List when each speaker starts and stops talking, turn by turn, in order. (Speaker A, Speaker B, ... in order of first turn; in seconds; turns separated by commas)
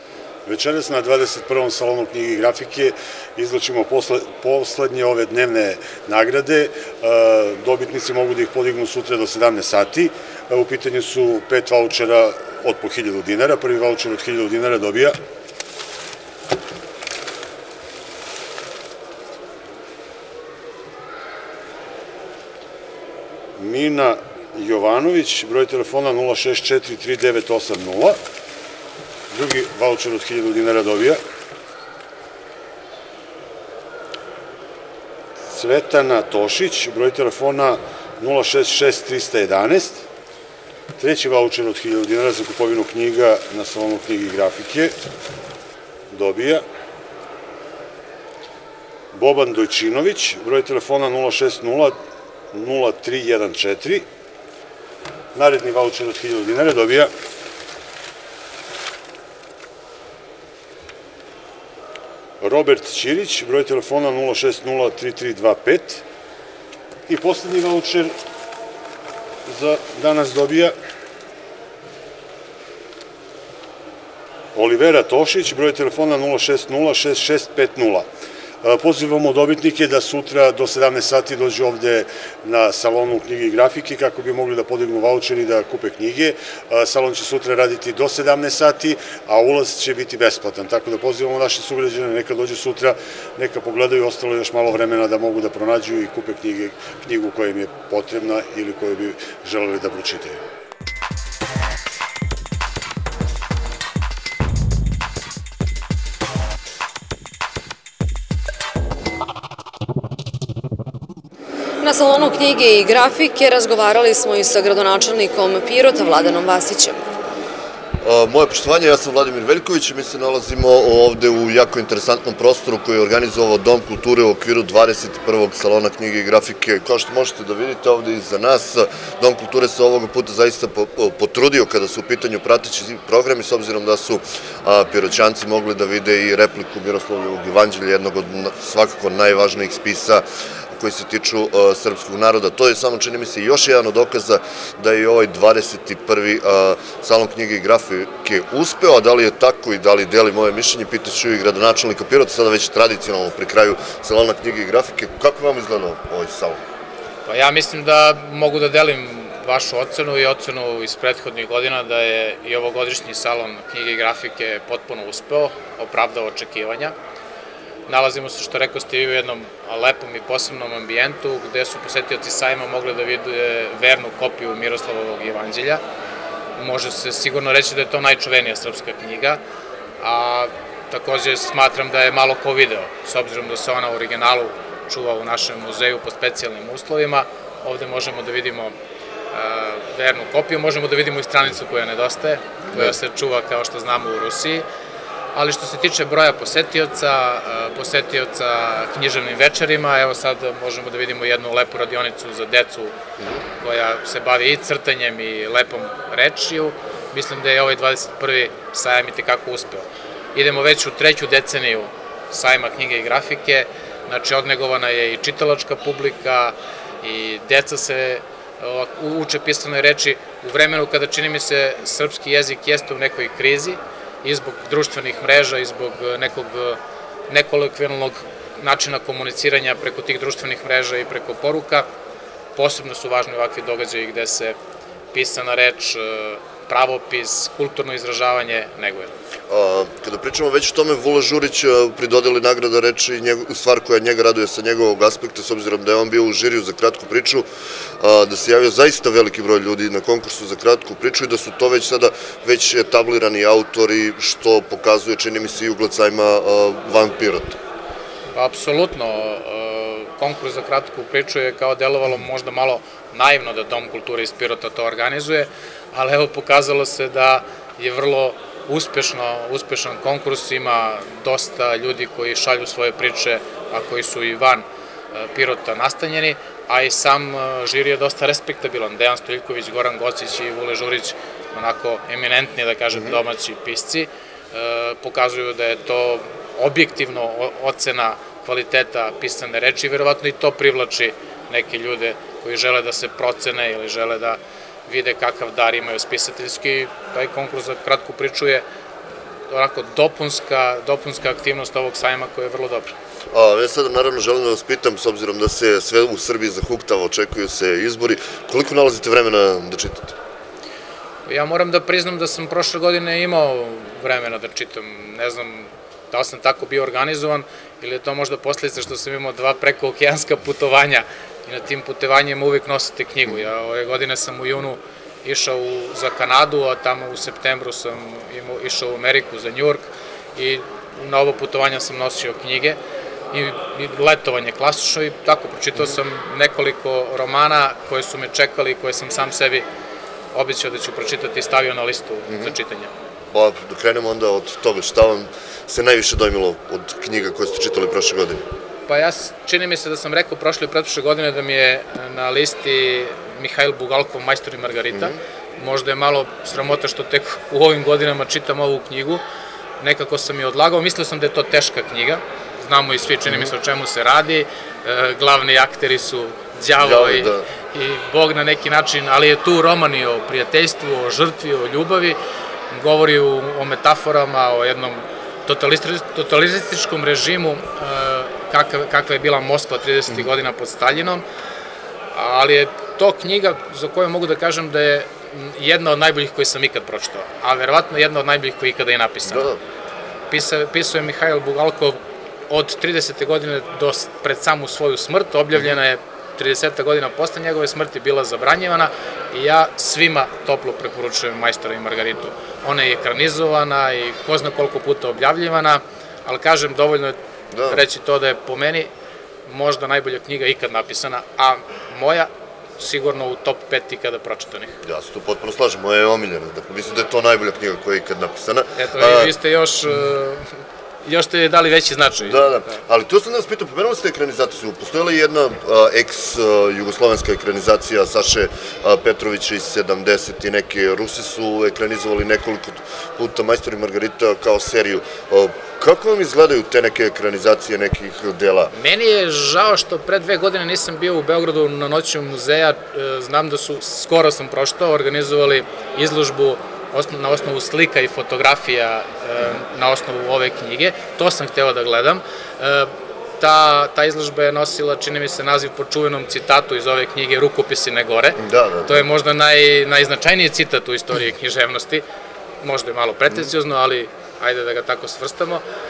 Speaker A: 0.5-15.2, Speaker A: 23.6-28.2, Speaker A: 29.3-31.2, Speaker A: 35.5-40.0, Speaker A: 41.0-44.9, Speaker A: 46.1-46.6, Speaker A: 49.1-52.0, Speaker A: 52.5-54.1, Speaker A: 55.4-57.1, Speaker A: 62.4-66.0, Speaker A: 67.1-68.2, Speaker A: 69.5-70.8, Speaker A: 74.5-78.1, Speaker A: 78.6-100.4, Speaker B: 111.8-117.1, Speaker C: 118.0-156.6, Speaker D: 157.3-166.9, Speaker D: 167.9-175.8, Speaker D: 176.6-179.4, Speaker D: 180.0-188.8, Speaker D: 189.3-194.7, Speaker C: 192.7-192.9, Speaker D: 195.3-202.9, Speaker D: 203.6-231.9, Speaker D: 232.6-234.6, Speaker D: 235.1-239.1, Speaker C: 239.5-247.5, Speaker C: 248.0-257.6, Speaker D: 258.3-298.6, Speaker D: 299.5-302.9, Speaker C: 303.3-310.1, Speaker D: 311.3-332.8, Speaker D: 333.3-339.7, Speaker D: 340.3-342.9, Speaker C: 342.3-342.6, Speaker C: 343.3-348.5, Speaker D: 348.9-359.2, Speaker C: 354.9-355.2, Speaker D: 359.8-372.2, Speaker C: 366.8-367.5, Speaker D: 372.7-381.2, Speaker D: 382.1-389.5, Speaker C: 389.3-389.6, Speaker D: 390.3-408.9, Speaker C: 407.5-407.8, Speaker D: 409.5-414.8, Speaker C: 414.8-419.3, Speaker D: 418.8-420.5, Speaker D: 421.1-422.8, Speaker C: 422.2-438.7, Speaker D: 438.7-462.1, Speaker C: 458.4-459.1, Speaker D: 462.6-465.6